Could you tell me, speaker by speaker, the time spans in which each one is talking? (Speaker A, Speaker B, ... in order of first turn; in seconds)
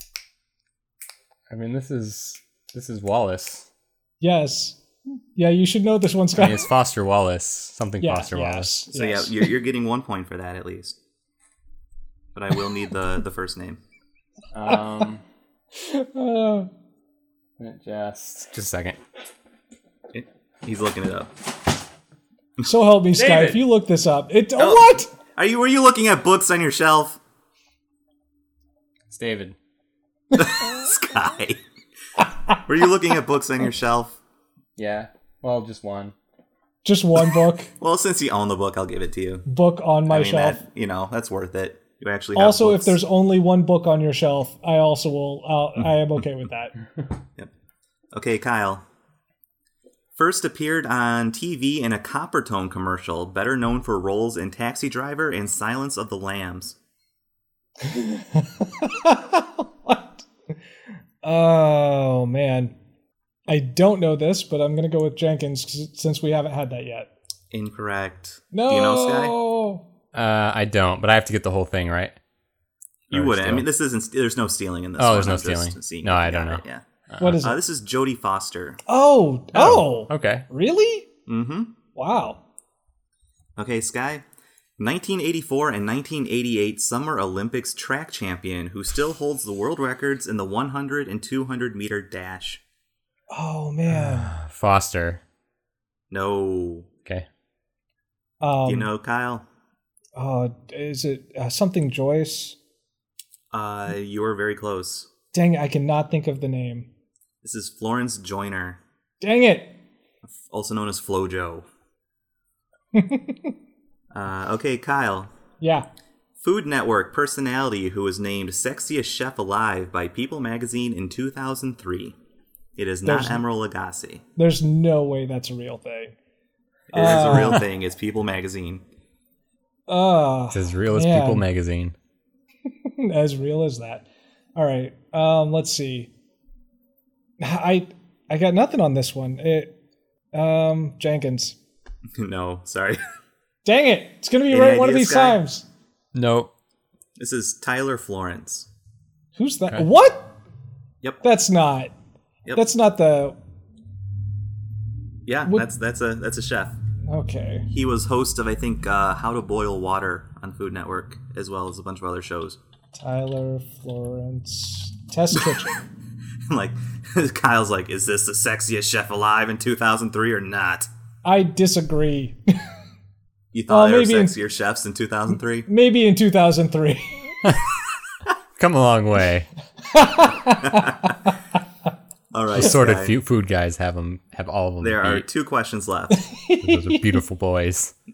Speaker A: 1.5-3.7, 6.3-8.7, 14.5-15.2, 17.6-19.0, 23.1-23.6, 29.1-29.6, 34.8-36.1, 70.1-72.2, 73.1-73.7, 75.0-77.4, 79.5-80.4, 93.9-95.2, 130.5-131.9, 146.1-146.5, 178.6-179.5, 182.5-185.2, 186.6-187.9
Speaker B: 4.2-4.8, 5.3-6.7, 8.0-9.5, 15.7-16.7, 22.6-25.1, 36.8-37.7, 39.5-40.6, 42.4-46.7, 57.8-60.2, 61.2-62.7, 63.5-67.1, 68.5-69.8, 77.2-77.6, 78.9-81.1, 81.9-82.4, 93.3-94.3, 98.4-98.9, 100.2-102.5, 105.3-106.9, 109.2-109.8, 112.9-113.5, 115.6-115.9, 123.0-123.4, 124.3-126.2, 126.9-127.6, 129.9-131.4, 132.7-136.1, 137.4-139.7, 140.3-141.6, 143.6-145.7, 149.3-150.3, 151.2-151.9, 152.5-153.4, 157.1-157.7, 163.0-165.8, 171.2-172.6, 173.7-174.3, 175.7-177.4, 179.9-181.1, 186.1-187.2
Speaker C: 8.9-11.0, 12.3-13.8, 20.1-21.3, 24.6-27.2, 30.3-31.6, 32.6-34.2, 37.8-39.5, 40.1-43.0, 48.1-48.8, 50.1-56.8, 67.5-69.3, 73.1-78.8, 81.3-81.7, 83.6-84.2, 84.8-92.6, 96.1-96.9, 98.6-99.4, 103.5-105.1, 107.4-108.8, 110.5-111.7, 114.1-115.3, 116.4-122.2, 122.8-124.2, 126.9-128.8, 142.2-143.0, 144.5-145.4, 147.2-148.7, 155.2-156.8, 157.7-162.6, 165.4-165.7, 166.5-170.9, 173.5-175.7, 180.6-181.2, 182.3-183.1, 184.8-186.2